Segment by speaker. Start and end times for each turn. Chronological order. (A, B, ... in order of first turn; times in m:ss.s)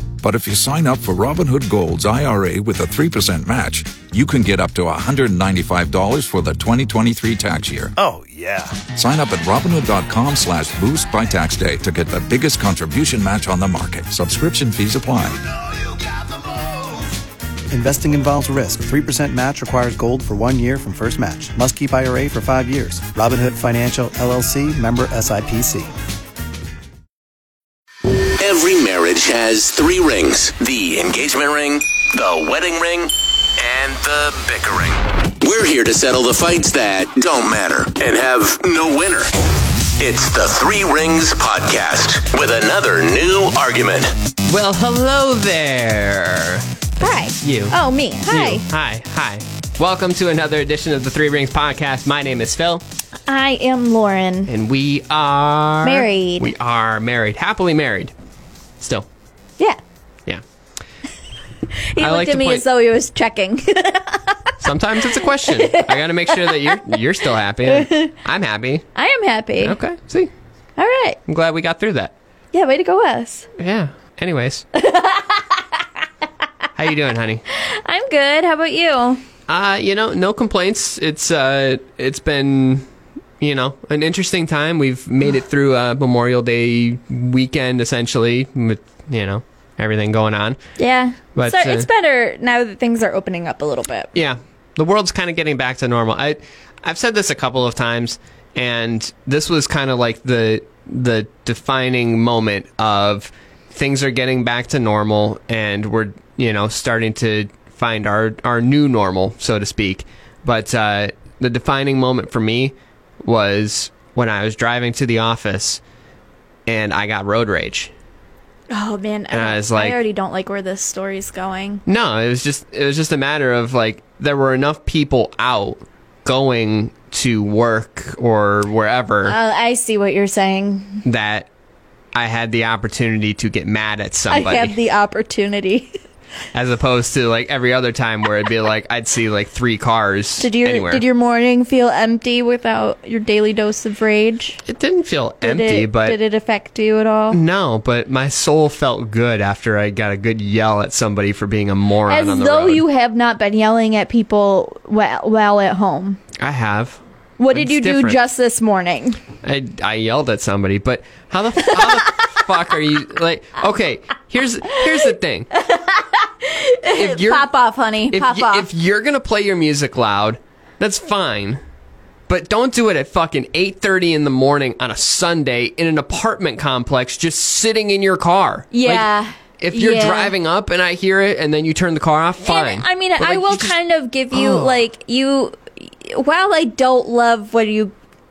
0:00.2-0:08.0 A
0:08.0-0:08.8 B
0:08.9-0:15.4 A
0:17.7-0:25.9 B
0:28.4-0:39.3 C
0:40.0-0:44.1 C
0:44.5-0:52.8 D
0:47.0-0:48.6 E
0:53.3-0:54.5 E
0:54.5-0:58.1 D
0:55.8-0:56.5 E
0:58.8-0:59.1 D
1:01.9-1:04.6 E
1:02.0-1:02.6 D
1:04.6-1:08.8 D
1:05.1-1:06.8 E
1:07.6-1:08.1 E
1:09.0-1:09.8 E
1:09.6-1:10.3 D
1:10.8-1:11.2 E
1:11.3-1:12.1 D
1:12.5-1:13.5 E
1:13.6-1:14.6 D
1:14.8-1:15.6 E
1:16.8-1:17.4 D
1:17.5-1:19.2 E
1:19.5-1:22.9 D
1:23.4-1:30.6 D
1:30.8-1:34.2 E
1:31.4-1:31.9 D
1:34.1-1:55.8 D
1:56.7-1:57.9 D
1:58.7-2:01.8 E
1:59.3-2:00.0 D
2:01.9-2:09.4 D
2:09.2-2:11.0 E
2:11.0-2:11.5 D
2:12.2-2:14.8 D
2:14.3-2:16.0 E
2:16.5-2:21.0 D
2:20.4-2:24.6 E
2:24.7-2:26.2 D
2:25.4-2:27.4 E
2:27.3-2:32.8 D
2:32.1-2:36.2 E
2:36.4-2:37.0 D
2:37.4-2:39.2 E
2:37.5-2:38.2 D
2:39.4-2:45.5 D
2:41.7-2:42.4 E
2:45.5-2:48.7 E
2:46.9-2:47.5 D
2:48.1-2:51.6 D
2:52.3-3:03.8 D
2:58.7-3:00.4 E
3:02.4-3:07.9 E
3:04.3-3:04.8 D